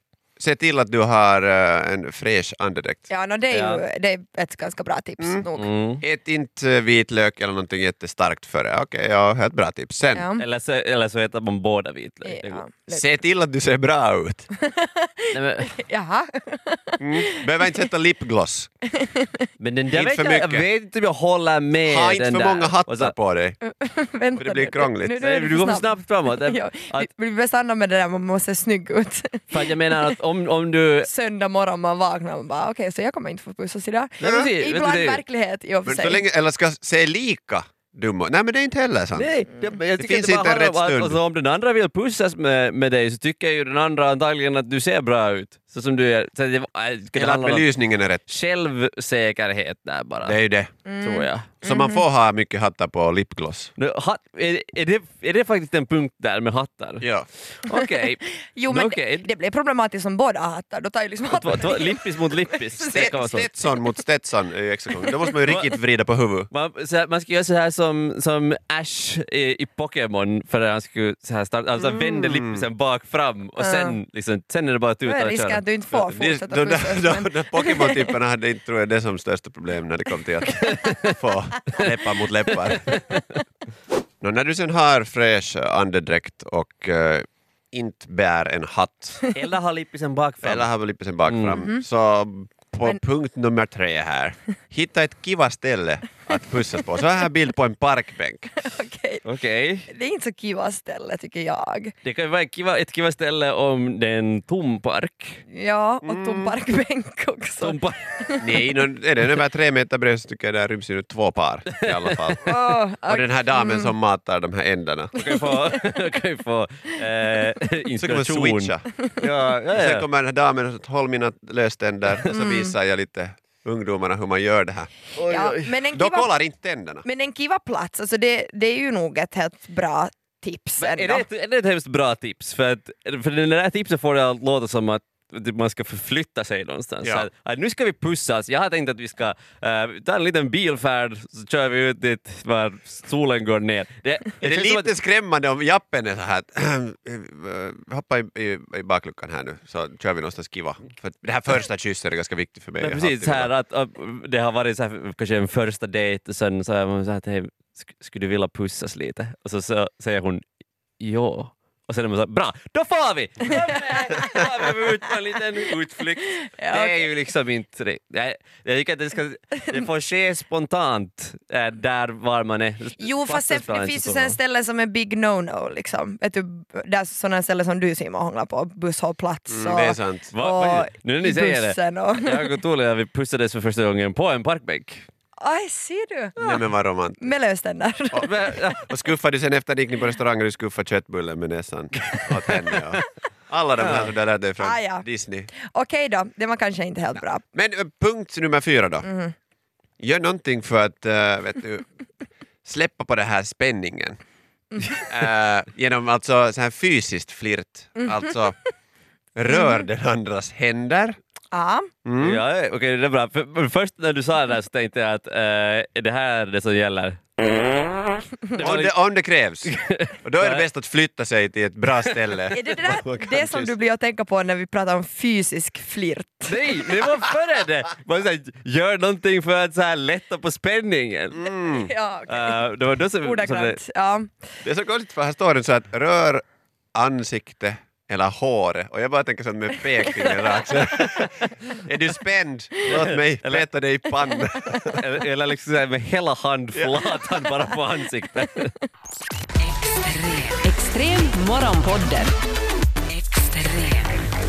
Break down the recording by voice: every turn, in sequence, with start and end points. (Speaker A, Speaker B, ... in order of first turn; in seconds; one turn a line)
Speaker A: 0.4-3.1
Speaker B: 3.1-5.7
Speaker C: 3.5-3.8
Speaker C: 5.5-6.0
Speaker A: 6.0-10.3
Speaker B: 10.1-10.4
Speaker C: 10.4-12.6
Speaker B: 12.2-13.2
Speaker A: 12.9-14.5
Speaker B: 14.5-17.8
Speaker C: 15.3-15.8
Speaker A: 17.0-18.7
Speaker B: 18.8-19.5
Speaker C: 19.6-23.1
Speaker A: 19.9-20.7
Speaker A: 21.9-23.6
Speaker B: 23.6-30.1
Speaker A: 24.4-25.2
Speaker C: 25.2-27.1
Speaker C: 29.5-31.1
Speaker B: 31.0-36.2
Speaker C: 34.2-35.2
Speaker A: 34.2-34.5
Speaker A: 35.9-39.4
Speaker C: 39.2-47.7
Speaker A: 40.0-41.2
Speaker A: 47.1-48.3
Speaker C: 48.3-50.4
Speaker A: 50.2-50.7
Speaker B: 50.9-52.1
Speaker C: 51.0-51.5
Speaker A: 51.6-53.7
Speaker C: 53.8-57.1
Speaker A: 57.0-57.3
Speaker C: 57.6-59.3
Speaker B: 58.5-63.1
Speaker C: 61.3-63.5
Speaker A: 62.8-66.5
Speaker C: 65.4-65.7
Speaker C: 66.5-75.6
Speaker A: 72.0-72.7
Speaker B: 73.6-74.0
Speaker B: 75.0-78.1
Speaker A: 75.9-83.0
Speaker C: 82.8-83.2
Speaker A: 84.2-89.2
Speaker C: 89.3-90.7
Speaker A: 90.4-98.6
Speaker C: 91.3-91.6
Speaker B: 91.5-91.8
Speaker B: 98.6-99.2
Speaker C: 99.2-99.9
Speaker B: 99.9-102.0
Speaker C: 102.0-105.4
Speaker B: 105.5-108.6
Speaker A: 106.0-106.6
Speaker C: 107.6-108.0
Speaker A: 108.4-115.3
Speaker C: 111.7-112.3
Speaker B: 112.4-114.0
Speaker C: 115.2-120.0
Speaker B: 115.2-115.8
Speaker A: 118.0-118.9
Speaker A: 119.7-124.9
Speaker B: 122.3-122.8
Speaker C: 125.2-125.8
Speaker B: 125.2-126.4
Speaker A: 125.9-127.1
Speaker B: 127.0-131.2
Speaker C: 130.8-144.9
Speaker A: 144.4-153.5
Speaker C: 152.8-160.4
Speaker C: 161.0-174.4
Speaker B: 166.4-167.1
Speaker B: 173.0-182.5
Speaker A: 179.5-180.3
Speaker C: 180.3-185.1
Speaker B: 185.4-186.4
Speaker A: 186.4-187.3
Speaker B: 187.2-188.3
Speaker A: 188.1-195.5
Speaker C: 188.2-188.9
Speaker C: 193.8-194.1
Speaker B: 194.6-195.1
Speaker B: 195.6-197.4
Speaker A: 197.2-199.1
Speaker B: 199.0-199.3
Speaker A: 200.0-201.9
Speaker A: 202.6-204.2
Speaker A: 204.9-208.6
Speaker B: 208.0-208.3
Speaker A: 209.3-211.2
Speaker B: 209.5-209.8
Speaker B: 211.5-211.9
Speaker A: 212.1-212.4
Speaker C: 212.2-217.2
Speaker C: 218.5-218.9
Speaker A: 218.6-219.7
Speaker C: 219.7-220.7
Speaker A: 220.2-223.7
Speaker B: 222.5-226.6
Speaker C: 226.5-231.5
Speaker A: 231.3-231.9
Speaker B: 231.6-234.4
Speaker C: 232.3-233.8
Speaker A: 234.6-245.0
Speaker C: 242.9-243.7
Speaker B: 244.4-244.8
Speaker C: 244.9-248.8
Speaker A: 246.8-247.2
Speaker D: 249.6-252.3
Speaker D: 253.1-254.2